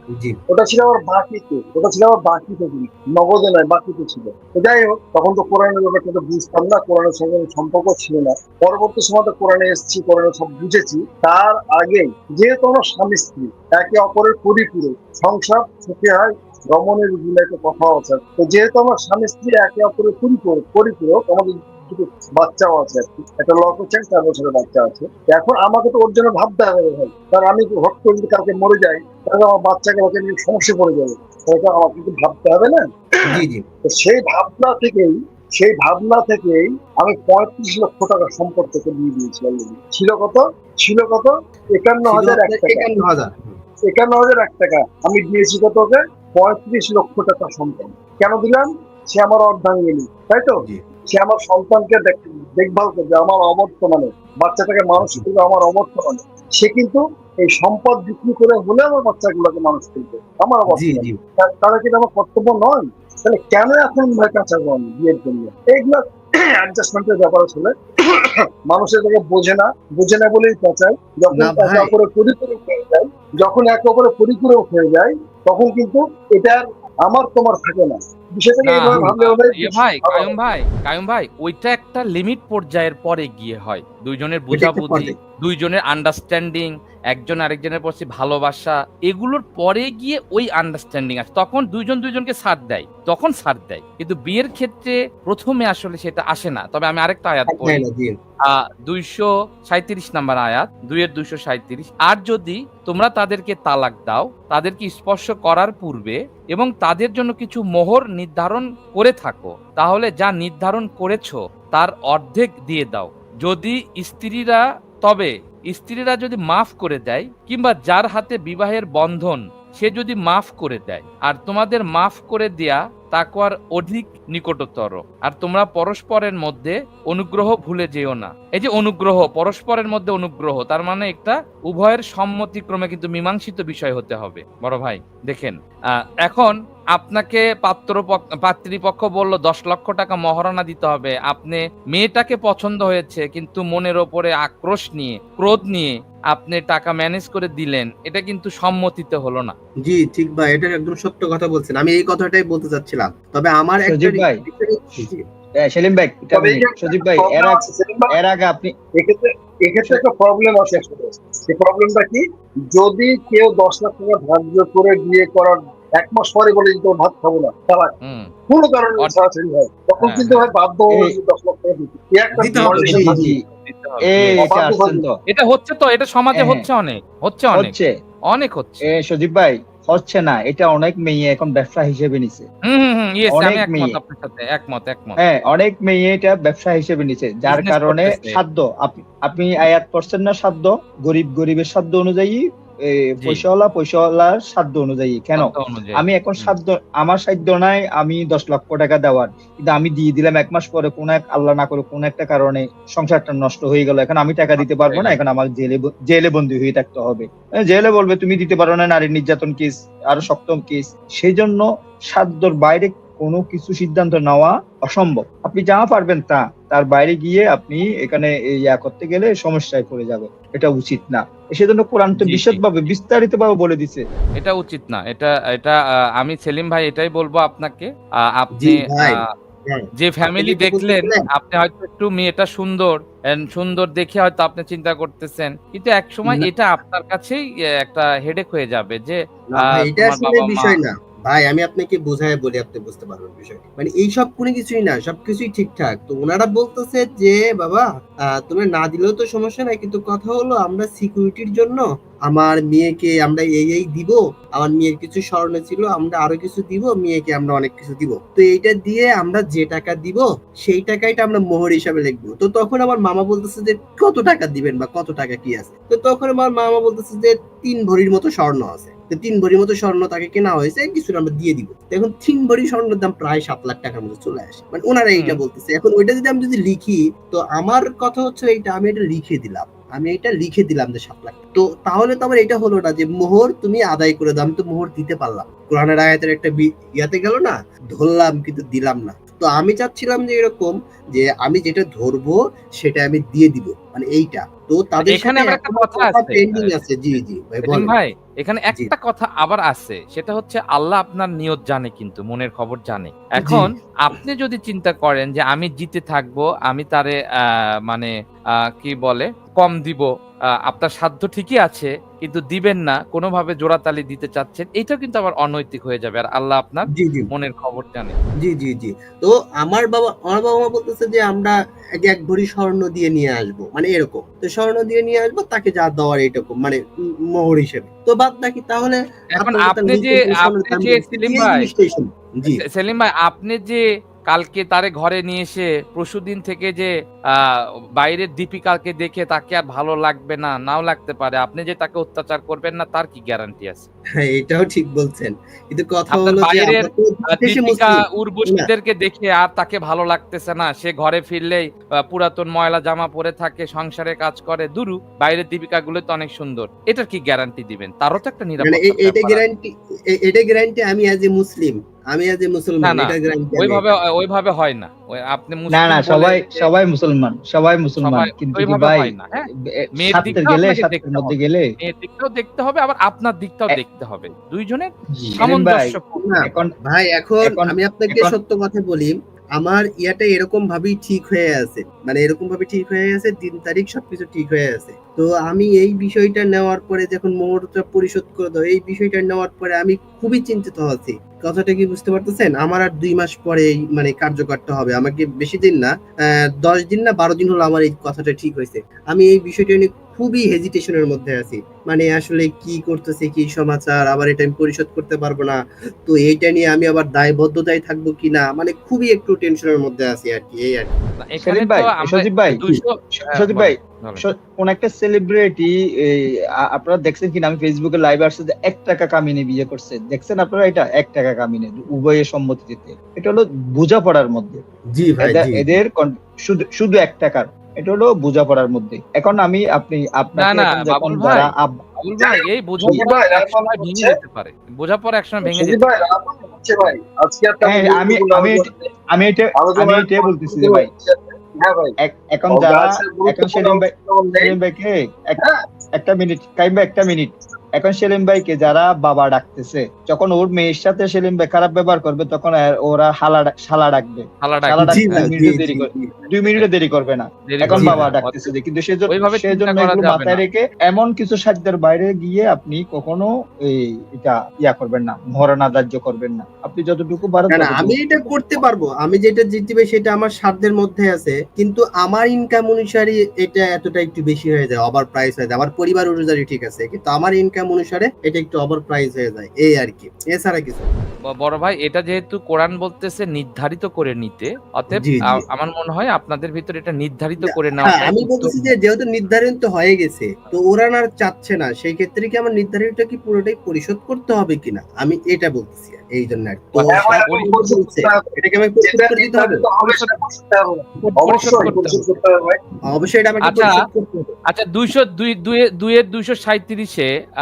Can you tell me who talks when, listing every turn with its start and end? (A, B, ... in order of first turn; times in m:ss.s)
0:00.1-0:00.4 A
0:00.5-0:42.9 B
0:33.2-0:33.6 A
0:42.0-0:43.6 A
0:43.8-1:20.3 B
1:00.7-1:01.2 A
1:11.3-1:11.9 A
1:18.6-1:37.8 C
1:24.5-1:25.1 A
1:37.5-1:38.1 A
1:38.4-2:15.6 C
2:16.2-2:29.5 C
2:29.8-2:35.2 A
2:33.9-2:34.4 D
2:35.6-2:38.7 D
2:36.3-2:38.2 B
2:39.0-2:47.9 B
2:48.0-2:48.3 C
2:48.5-2:53.3 B
2:50.0-2:50.5 C
2:52.4-2:53.3 A
2:52.7-2:53.4 D
2:53.4-2:54.4 C
2:54.0-2:55.1 D
2:54.3-2:55.0 B
2:55.3-2:57.7 C
2:56.3-2:56.6 D
2:57.5-2:57.9 D
2:58.3-2:58.8 C
2:59.0-3:02.4 D
3:02.7-3:05.2 C
3:03.3-3:04.0 D
3:05.2-3:44.0 D
3:07.5-3:08.4 C
3:15.4-3:16.5 C
3:24.6-3:25.2 C
3:42.2-3:42.6 C
3:44.4-3:49.2 C
3:48.6-3:49.9 A
3:50.0-4:00.8 C
3:50.4-3:51.2 A
3:59.5-4:57.9 A
4:35.2-4:35.4 C
4:55.0-5:07.2 C
5:03.4-5:03.7 A
5:08.8-5:10.1 C
5:10.6-5:18.2 C
5:16.9-5:17.3 A
5:18.4-5:26.8 A
5:27.3-5:32.6 A
5:29.3-5:31.7 C
5:32.5-5:43.9 C
5:44.1-5:48.7 A
5:46.1-5:59.4 C
5:58.6-6:03.9 A
6:02.8-6:06.7 C
6:05.7-6:09.1 D
6:08.0-6:09.4 C
6:09.8-6:11.6 D
6:10.0-6:14.9 C
6:10.2-6:10.4 A
6:15.1-6:15.4 A
6:15.4-6:16.7 D
6:15.4-6:16.2 C
6:16.2-6:51.0 A
6:17.4-6:18.3 D
6:51.2-6:54.2 C
6:51.4-6:52.6 D
6:53.2-7:04.6 D
7:04.9-7:05.6 A
7:05.2-7:11.7 D
7:10.4-7:15.8 C
7:12.2-7:14.2 B
7:15.4-7:18.9 B
7:17.7-7:20.9 D
7:19.6-7:21.9 B
7:22.0-7:25.4 D
7:22.5-7:24.6 B
7:26.0-7:48.0 D
7:34.4-7:35.2 C
7:34.9-7:36.1 A
7:37.5-7:38.4 C
7:37.7-7:38.0 A
7:39.1-7:40.4 C
7:47.5-8:00.9 A
8:01.4-8:08.6 C
8:04.9-8:05.4 A
8:07.4-8:19.6 A
8:16.9-8:22.6 B
8:17.3-8:17.5 C
8:19.8-8:20.2 C
8:21.0-8:22.0 C
8:22.9-8:24.3 A
8:23.4-8:23.8 C
8:24.5-8:27.1 C